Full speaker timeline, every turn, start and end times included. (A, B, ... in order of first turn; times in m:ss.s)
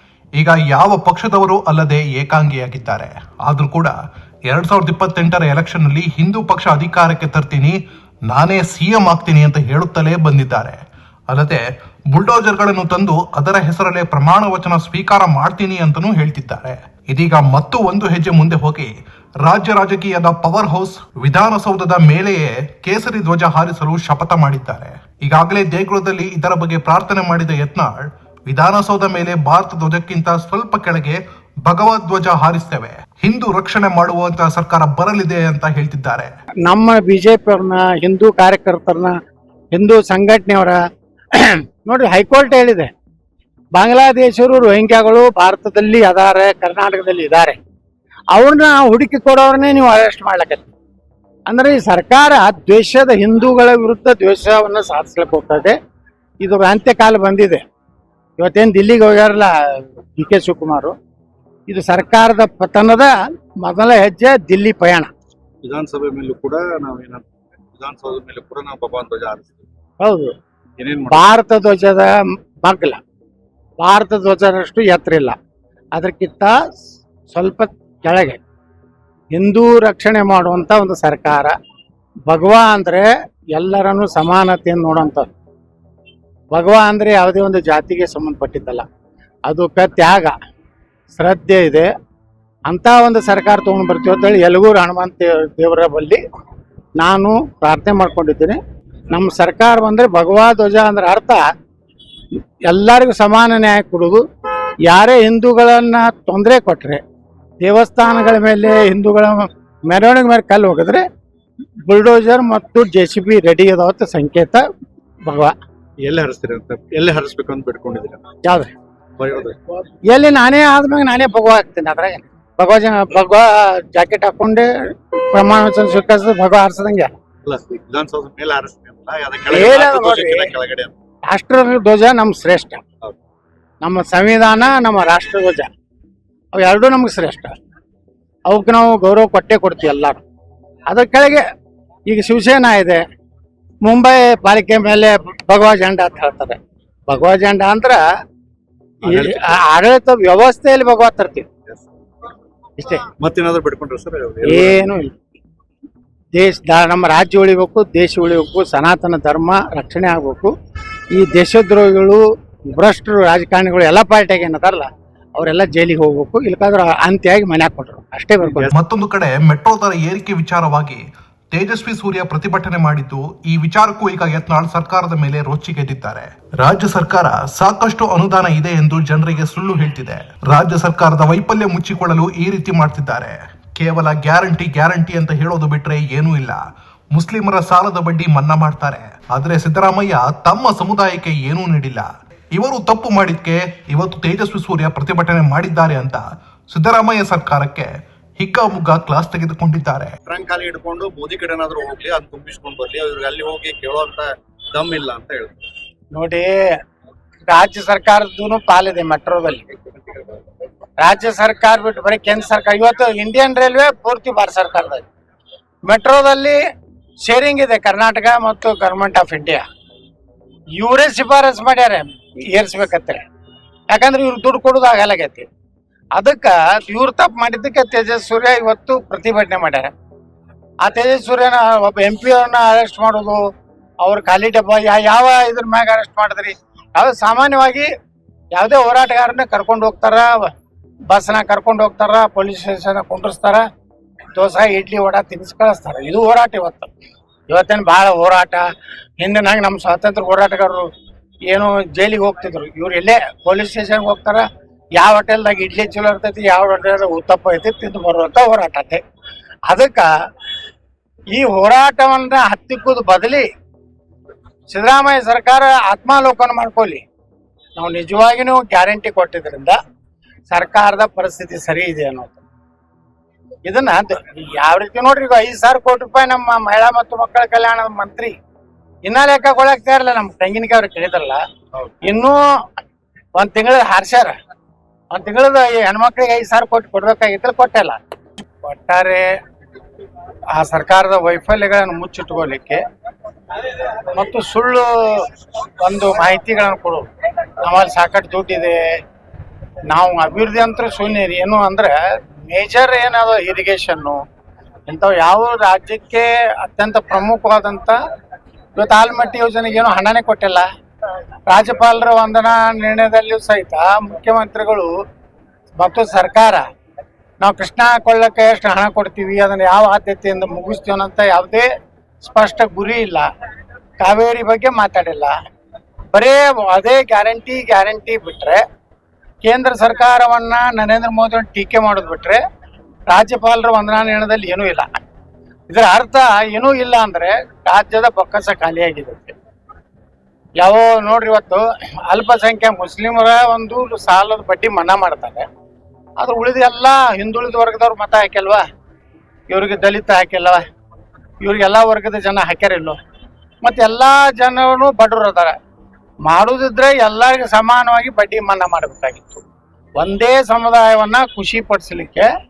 0:00.4-0:03.9 A
0:04.5-0:07.8 A
0:08.3-0:10.8 A
0:11.3-0:18.9 A
0:19.4-0:36.3 A
0:36.6-0:39.1 B
0:39.7-0:40.8 B
0:41.3-0:42.9 B
0:43.7-0:47.6 B
0:48.3-0:50.7 B
0:51.5-0:55.8 B
0:56.4-0:57.6 B
0:58.4-1:00.9 B
1:01.7-1:05.1 B
1:05.6-1:09.6 C
1:10.0-1:10.3 B
1:10.8-1:11.3 C
1:11.1-1:12.1 B
1:12.6-1:13.0 B
1:13.8-1:15.3 B
1:15.9-1:16.5 B
1:17.3-1:18.4 B
1:19.3-1:21.5 B
1:22.3-1:25.3 B
1:26.5-1:28.8 B
1:29.5-1:30.3 B
1:31.1-1:31.9 B
1:32.7-1:36.2 B
1:37.0-1:38.6 B
1:39.1-1:41.4 B
1:42.7-1:44.2 B
1:44.9-1:47.0 B
1:47.6-1:51.0 B
1:51.8-1:54.6 B
1:55.2-1:55.5 B
1:56.0-1:58.2 C
1:58.4-1:58.7 B
1:59.2-1:59.6 C
2:00.1-2:04.7 B
2:05.3-2:07.1 B
2:07.4-2:10.9 C
2:09.5-2:10.5 B
2:11.3-2:12.8 B
2:13.8-2:15.7 B
2:16.5-2:17.6 B
2:18.5-2:20.2 B
2:20.9-2:21.4 B
2:22.1-2:23.0 B
2:23.8-2:28.0 B
2:29.0-2:29.6 C
2:29.0-2:31.5 B
2:32.8-2:33.1 B
2:33.2-2:34.8 C
2:34.4-2:35.2 B
2:36.3-2:40.5 B
2:41.1-2:48.7 B
2:48.4-2:48.7 C
2:48.7-3:06.6 A
3:07.1-3:20.1 A
3:20.2-3:25.6 C
3:26.1-3:26.7 B
3:27.5-3:29.6 B
3:31.0-3:35.1 B
3:35.8-3:36.6 B
3:37.2-3:39.6 B
3:40.8-3:43.2 B
3:43.9-3:45.5 B
3:46.1-3:49.9 B
3:50.8-3:53.4 B
3:54.0-3:57.9 B
3:58.5-4:00.5 B
4:01.1-4:03.6 B
4:04.3-4:06.9 B
4:07.5-4:08.6 B
4:09.2-4:10.9 B
4:11.5-4:14.4 B
4:15.0-4:19.0 B
4:19.7-4:20.1 B
4:21.3-4:23.5 B
4:24.7-4:27.0 B
4:27.8-4:29.8 B
4:30.5-4:32.4 B
4:33.6-4:38.3 B
4:39.0-4:41.4 B
4:41.7-4:42.0 C
4:42.0-4:42.4 B
4:43.4-4:44.3 B
4:45.1-4:48.0 B
4:48.6-4:49.3 B
4:50.6-4:52.8 B
4:54.1-4:55.3 B
4:55.8-4:57.0 B
4:57.6-4:58.8 B
4:59.9-5:04.2 B
5:04.9-5:08.0 B
5:08.8-5:10.6 B
5:11.5-5:14.9 B
5:15.8-5:16.6 B
5:17.4-5:21.7 B
5:22.2-5:23.3 B
5:24.0-5:25.3 B
5:26.1-5:28.6 B
5:29.4-5:32.4 B
5:33.1-5:34.9 B
5:35.7-5:39.3 B
5:40.6-5:45.4 B
5:46.2-5:48.6 B
5:49.5-5:50.6 B
5:51.4-5:53.0 B
5:53.6-5:55.5 B
5:56.2-5:59.4 B
6:00.0-6:02.3 B